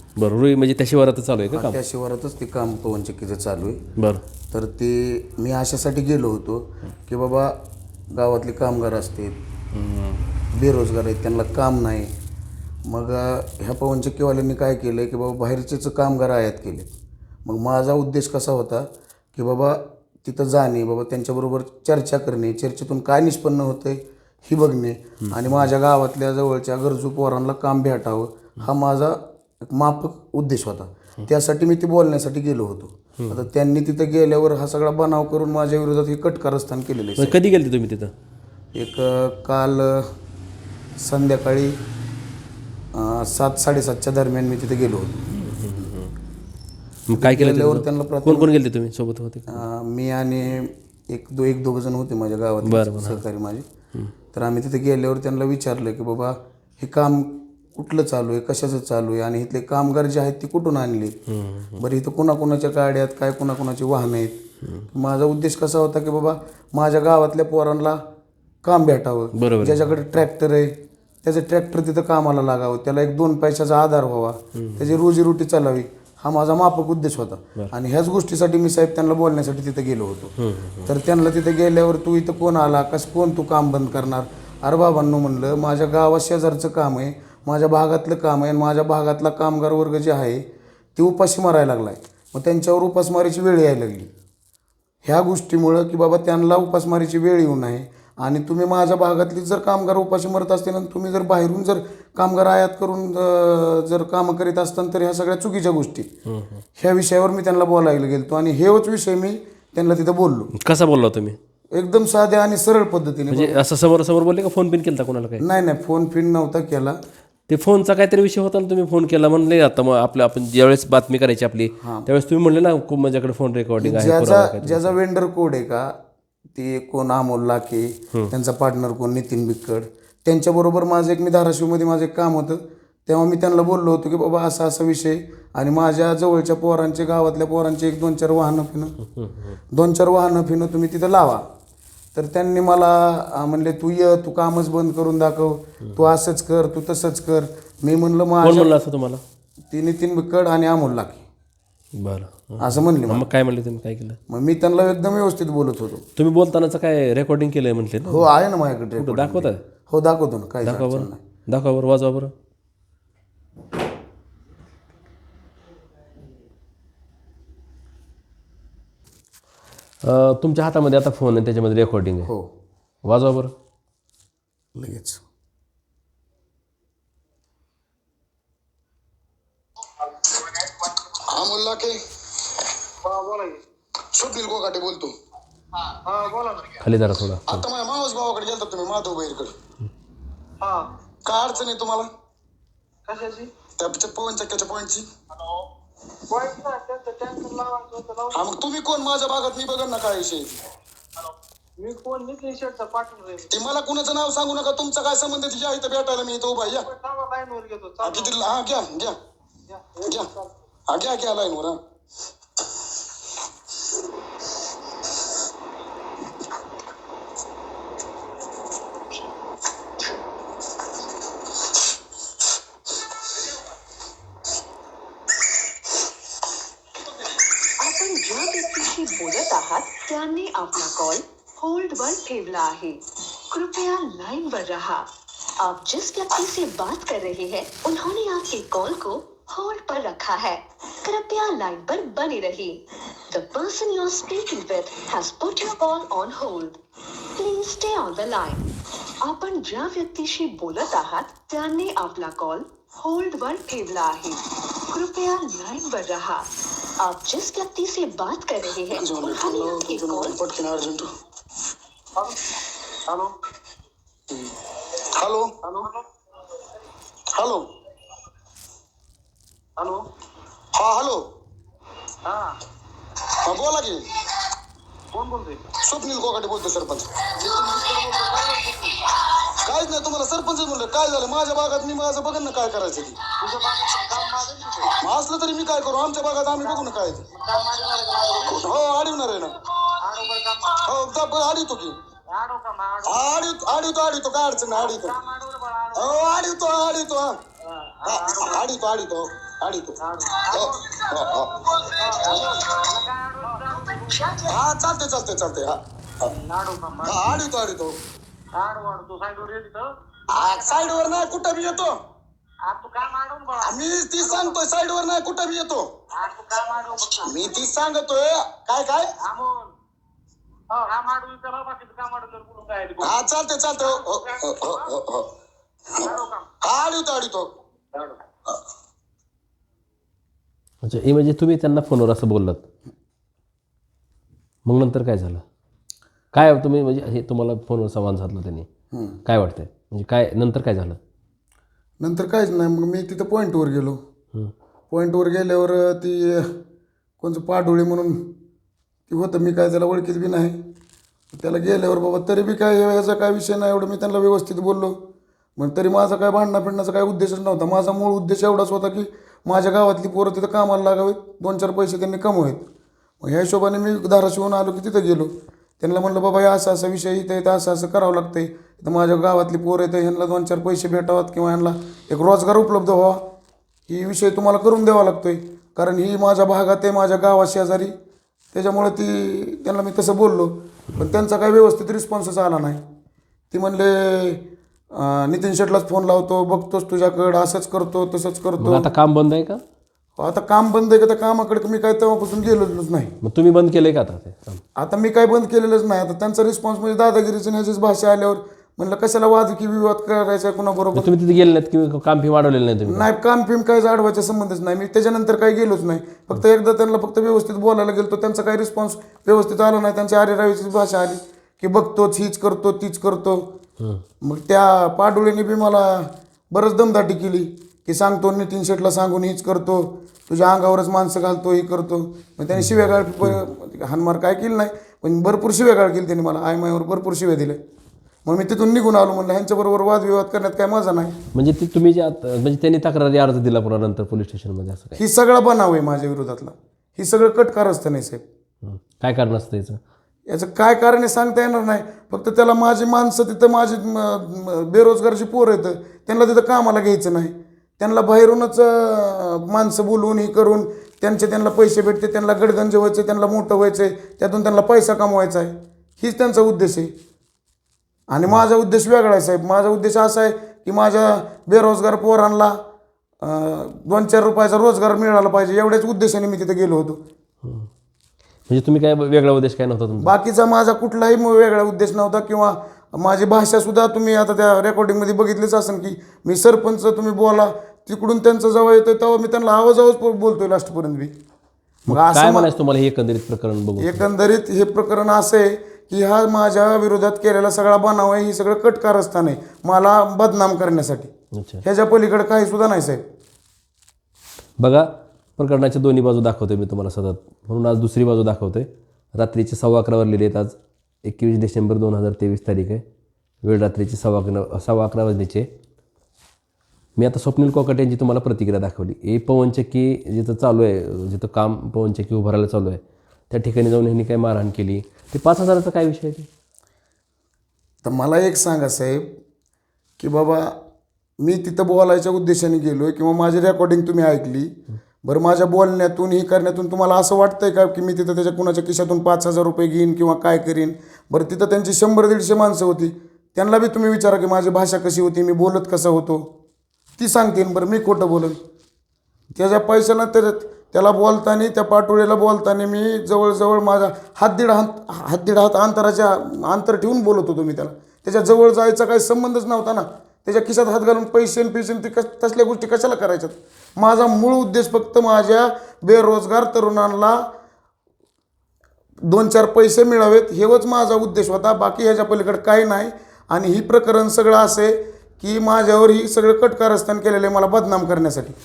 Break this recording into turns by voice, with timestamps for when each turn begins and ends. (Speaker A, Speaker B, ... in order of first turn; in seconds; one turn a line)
Speaker A: 0.2-1.8
Speaker B: 1.5-3.8
Speaker A: 4.0-4.2
Speaker B: 4.5-7.5
Speaker B: 8.1-9.3
Speaker A: 9.7-10.2
Speaker B: 10.5-12.1
Speaker B: 12.8-16.9
Speaker B: 17.4-37.4
Speaker A: 25.2-25.7
Speaker A: 37.2-38.1
Speaker B: 38.7-40.1
Speaker B: 41.0-41.8
Speaker B: 42.9-45.2
Speaker A: 45.3-46.1
Speaker A: 47.1-49.6
Speaker B: 47.1-48.5
Speaker B: 49.5-53.7
Speaker A: 52.6-53.2
Speaker B: 54.3-61.1
Speaker A: 61.3-61.8
Speaker B: 61.8-64.4
Speaker A: 64.6-64.9
Speaker B: 64.9-68.0
Speaker B: 68.6-80.3
Speaker A: 69.3-69.8
Speaker A: 74.5-74.9
Speaker A: 80.4-80.9
Speaker B: 80.8-90.4
Speaker B: 91.0-94.1
Speaker B: 95.0-106.1
Speaker A: 106.3-106.6
Speaker B: 106.8-110.5
Speaker A: 110.5-111.4
Speaker B: 111.7-113.6
Speaker A: 113.3-115.4
Speaker B: 115.4-117.0
Speaker A: 117.5-125.0
Speaker B: 121.8-122.1
Speaker B: 123.8-125.9
Speaker B: 126.5-139.0
Speaker A: 139.0-139.6
Speaker B: 139.7-141.4
Speaker B: 142.1-148.7
Speaker A: 148.4-149.2
Speaker B: 149.7-151.2
Speaker A: 152.0-154.2
Speaker B: 152.6-153.2
Speaker B: 154.3-156.0
Speaker A: 156.2-158.3
Speaker B: 158.0-161.2
Speaker A: 158.9-159.6
Speaker A: 160.6-162.3
Speaker A: 170.0-172.3
Speaker A: 173.0-173.5
Speaker B: 174.8-175.2
Speaker C: 181.3-182.0
Speaker D: 183.0-183.6
Speaker C: 184.1-185.1
Speaker D: 186.1-186.8
Speaker A: 186.8-187.7
Speaker C: 187.5-189.5
Speaker D: 190.6-190.9
Speaker C: 191.2-192.1
Speaker D: 193.1-193.5
Speaker C: 193.8-195.0
Speaker D: 196.3-198.5
Speaker C: 198.3-200.6
Speaker D: 201.8-203.5
Speaker C: 203.5-206.8
Speaker D: 206.6-208.4
Speaker C: 208.0-209.1
Speaker D: 209.7-210.5
Speaker C: 210.9-211.8
Speaker E: 227.8-235.1
Speaker E: 235.6-246.8
Speaker E: 247.4-248.6
Speaker E: 249.2-254.4
Speaker E: 254.9-256.4
Speaker E: 257.0-260.4
Speaker C: 258.9-261.1
Speaker C: 265.2-265.5
Speaker D: 265.6-266.0
Speaker C: 267.3-267.6
Speaker C: 270.7-271.2
Speaker D: 272.2-272.6
Speaker C: 273.4-274.0
Speaker D: 275.1-275.6
Speaker C: 275.8-278.3
Speaker D: 277.8-278.9
Speaker C: 279.6-283.2
Speaker D: 283.4-284.9
Speaker C: 285.0-287.2
Speaker D: 286.6-288.6
Speaker C: 288.3-289.5
Speaker D: 290.0-290.7
Speaker C: 290.7-291.9
Speaker D: 292.3-293.2
Speaker C: 293.0-295.1
Speaker D: 294.7-296.3
Speaker C: 295.9-297.3
Speaker D: 298.0-298.6
Speaker C: 298.1-299.9
Speaker D: 300.0-300.8
Speaker C: 300.5-302.7
Speaker D: 302.0-304.5
Speaker C: 304.4-306.3
Speaker D: 306.4-307.2
Speaker C: 307.0-307.9
Speaker D: 308.6-309.9
Speaker C: 310.3-311.9
Speaker D: 310.4-311.8
Speaker D: 312.6-314.6
Speaker C: 313.6-315.9
Speaker D: 316.1-317.6
Speaker C: 317.2-319.1
Speaker D: 319.2-319.7
Speaker D: 320.7-323.2
Speaker C: 323.0-325.3
Speaker C: 325.9-327.5
Speaker D: 326.0-326.5
Speaker A: 330.8-332.6
Speaker A: 334.6-335.4
Speaker A: 336.3-338.7
Speaker B: 338.9-339.2
Speaker A: 339.2-341.0
Speaker B: 342.0-344.0
Speaker B: 344.9-346.5
Speaker B: 347.2-348.3
Speaker B: 349.1-350.6
Speaker B: 351.3-355.0
Speaker B: 355.6-362.7
Speaker B: 363.2-373.2
Speaker B: 373.9-377.9
Speaker B: 378.5-382.8
Speaker B: 383.5-388.9
Speaker A: 388.6-389.6
Speaker B: 390.2-393.2
Speaker A: 393.2-394.6
Speaker B: 394.8-401.1
Speaker A: 400.9-403.1
Speaker B: 402.8-413.5
Speaker B: 414.2-427.6
Speaker A: 422.6-423.4
Speaker B: 428.2-431.2
Speaker A: 431.3-435.0
Speaker B: 435.0-438.2
Speaker A: 438.6-439.8
Speaker B: 440.3-456.9
Speaker B: 458.1-462.6
Speaker B: 463.2-467.0
Speaker A: 467.4-467.7
Speaker A: 468.5-470.1
Speaker B: 470.0-481.1
Speaker B: 481.9-482.5
Speaker A: 481.9-484.0
Speaker B: 483.8-491.1
Speaker A: 491.4-491.6
Speaker B: 491.6-493.0
Speaker A: 494.6-502.8
Speaker A: 503.4-505.5
Speaker A: 507.0-516.3
Speaker B: 517.8-519.1
Speaker B: 520.0-520.6
Speaker B: 521.2-536.3
Speaker B: 537.0-538.4
Speaker B: 539.4-557.2
Speaker B: 559.0-568.4